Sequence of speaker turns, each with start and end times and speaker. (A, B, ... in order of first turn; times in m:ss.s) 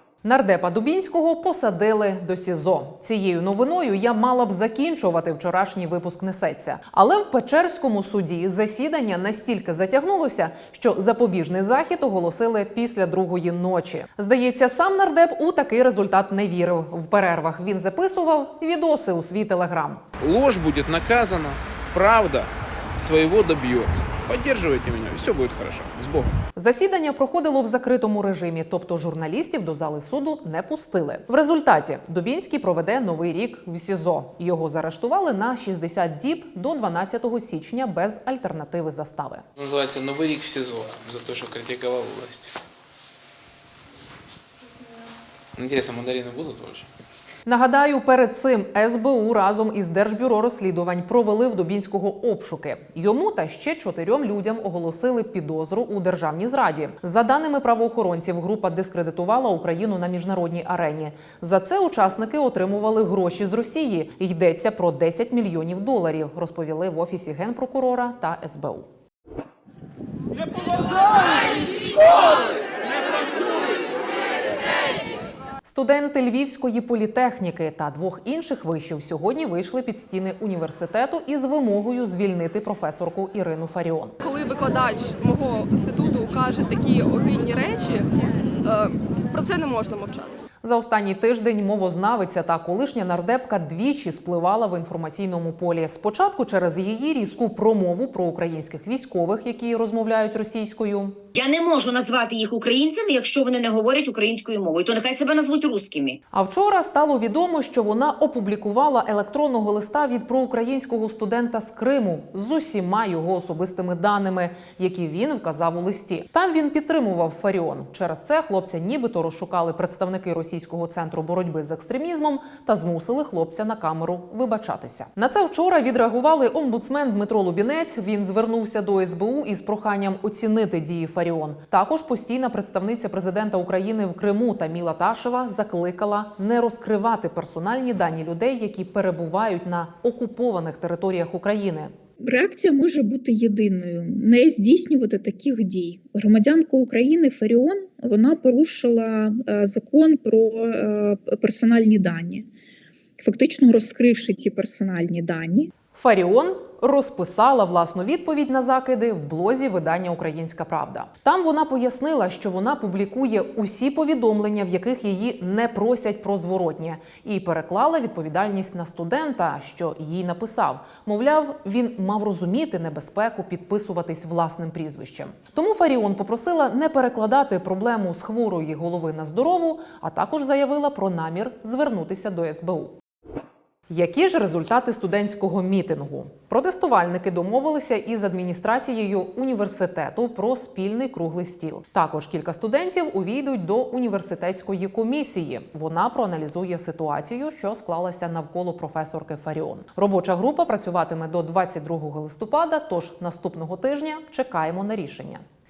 0:00.2-0:20.0 A
0:20.2-0:26.3 B
0:26.6-0:39.4 A
0:39.6-0:42.6 B
0:45.6-0:46.9 B
0:47.4-1:08.9 A
1:15.6-1:24.2 A
1:24.2-1:28.1 C
1:28.6-1:30.3 C
1:30.6-1:41.2 A
1:41.3-1:46.2 D
1:46.3-2:21.9 A
2:22.2-2:32.5 E
2:33.2-2:35.7 E
2:35.9-3:03.0 A
3:03.9-3:25.4 A